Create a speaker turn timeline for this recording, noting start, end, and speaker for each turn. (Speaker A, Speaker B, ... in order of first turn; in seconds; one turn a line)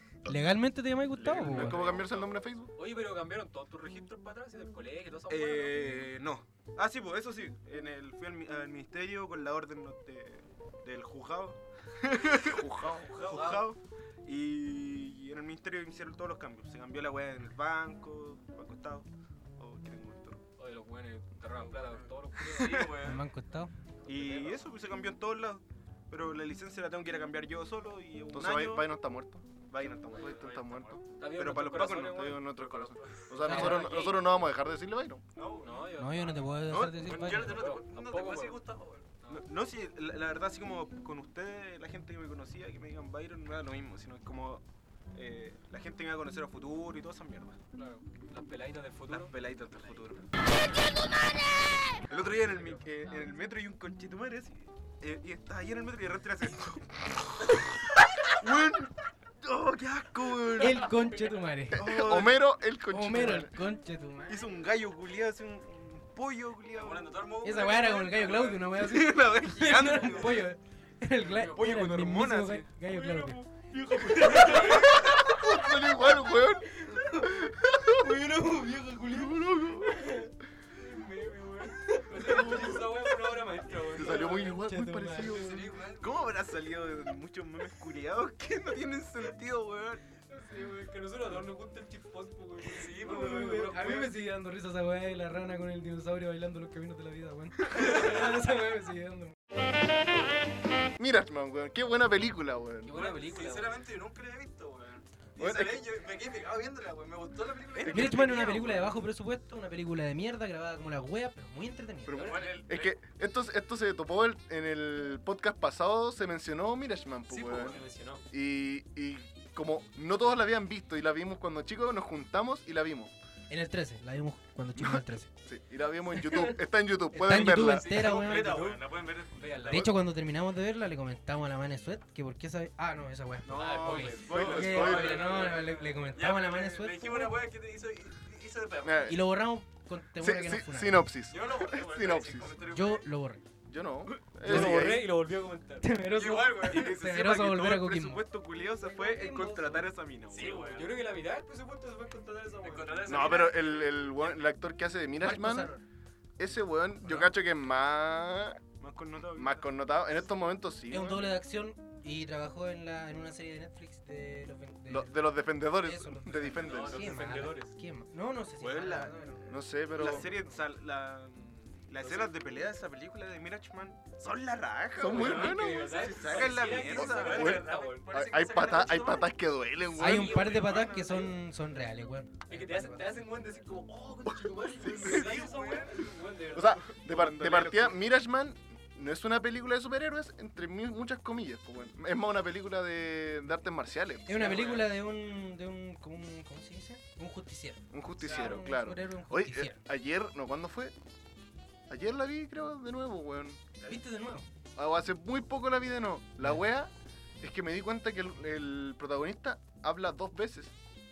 Speaker A: 0.3-1.9
Speaker B: 1.2-2.0
Speaker C: 1.2-2.7
Speaker D: 2.8-5.8
Speaker B: 5.3-19.1
Speaker C: 12.5-13.1
Speaker E: 13.0-13.6
Speaker B: 19.6-20.4
Speaker D: 20.6-22.9
Speaker E: 21.6-23.2
Speaker B: 22.6-23.1
Speaker A: 23.0-23.7
Speaker B: 24.1-28.9
Speaker E: 24.1-24.6
Speaker C: 28.3-29.4
Speaker B: 29.7-30.4
Speaker E: 30.1-31.0
Speaker C: 30.1-31.0
Speaker D: 31.2-34.2
Speaker B: 31.3-32.4
Speaker C: 32.0-35.2
Speaker E: 32.5-34.2
Speaker A: 33.4-33.9
Speaker E: 35.4-35.9
Speaker D: 35.6-38.7
Speaker A: 36.0-37.7
Speaker B: 36.7-37.4
Speaker E: 37.0-39.2
Speaker B: 39.3-47.6
Speaker D: 47.8-49.3
Speaker B: 49.1-50.3
Speaker B: 52.1-57.6
Speaker D: 52.2-53.3
Speaker B: 58.2-61.0
Speaker A: 60.6-61.8
Speaker B: 61.7-62.5
Speaker C: 61.7-63.6
Speaker A: 62.9-64.4
Speaker B: 64.3-67.3
Speaker E: 66.7-68.7
Speaker A: 67.4-73.4
Speaker B: 68.7-70.5
Speaker D: 71.2-71.6
Speaker B: 71.5-75.1
Speaker C: 74.3-78.1
Speaker D: 74.3-75.0
Speaker A: 77.0-77.3
Speaker A: 78.0-79.1
Speaker C: 79.1-80.1
Speaker D: 80.7-84.6
Speaker B: 82.2-82.8
Speaker C: 83.9-85.7
Speaker A: 84.0-85.3
Speaker D: 85.2-85.7
Speaker E: 85.4-86.2
Speaker B: 86.0-90.0
Speaker D: 90.3-94.1
Speaker A: 93.0-99.4
Speaker D: 97.9-98.1
Speaker C: 101.0-103.0
Speaker D: 102.8-103.8
Speaker E: 102.9-108.2
Speaker C: 105.4-105.9
Speaker B: 107.7-109.0
Speaker C: 107.9-108.2
Speaker A: 107.9-112.2
Speaker C: 112.1-123.1
Speaker D: 112.1-112.7
Speaker E: 112.2-113.0
Speaker D: 117.3-118.2
Speaker A: 123.5-125.3
Speaker C: 124.8-127.9
Speaker A: 126.2-126.6
Speaker A: 127.1-128.7
Speaker D: 127.3-129.9
Speaker E: 127.9-129.9
Speaker A: 129.7-137.4
Speaker B: 133.4-135.4
Speaker D: 133.5-135.7
Speaker E: 133.8-139.2
Speaker C: 134.3-135.2
Speaker C: 138.8-139.2
Speaker A: 139.1-141.1
Speaker C: 140.2-142.6
Speaker E: 141.3-143.1
Speaker A: 142.7-143.4
Speaker C: 143.7-145.1
Speaker D: 144.4-145.9
Speaker A: 144.5-144.8
Speaker A: 145.8-149.9
Speaker E: 146.1-146.9
Speaker B: 146.6-150.8
Speaker E: 150.3-150.9
Speaker D: 150.3-153.6
Speaker E: 152.6-154.4
Speaker C: 153.1-155.7
Speaker A: 155.2-155.8
Speaker C: 156.4-158.6
Speaker A: 157.0-157.3
Speaker B: 158.8-159.7
Speaker C: 159.3-161.3
Speaker A: 160.9-165.1
Speaker C: 164.9-167.1
Speaker A: 165.8-170.3
Speaker D: 166.6-167.7
Speaker E: 166.7-167.0
Speaker B: 168.6-169.2
Speaker C: 169.5-170.3
Speaker B: 169.9-177.8
Speaker C: 175.0-176.0
Speaker D: 175.1-179.2
Speaker E: 176.3-179.3
Speaker C: 177.1-180.4
Speaker B: 178.4-179.2
Speaker A: 180.0-183.3
Speaker B: 180.0-181.3
Speaker D: 180.0-181.3
Speaker D: 182.5-186.9
Speaker C: 184.8-185.3
Speaker B: 184.9-185.8
Speaker E: 185.0-186.0
Speaker C: 186.5-194.6
Speaker B: 186.6-188.1
Speaker A: 194.3-199.8
Speaker B: 194.4-194.7
Speaker E: 194.5-194.8
Speaker C: 197.9-200.9
Speaker E: 198.2-198.6
Speaker C: 201.9-203.6
Speaker A: 203.9-204.5
Speaker C: 204.8-210.8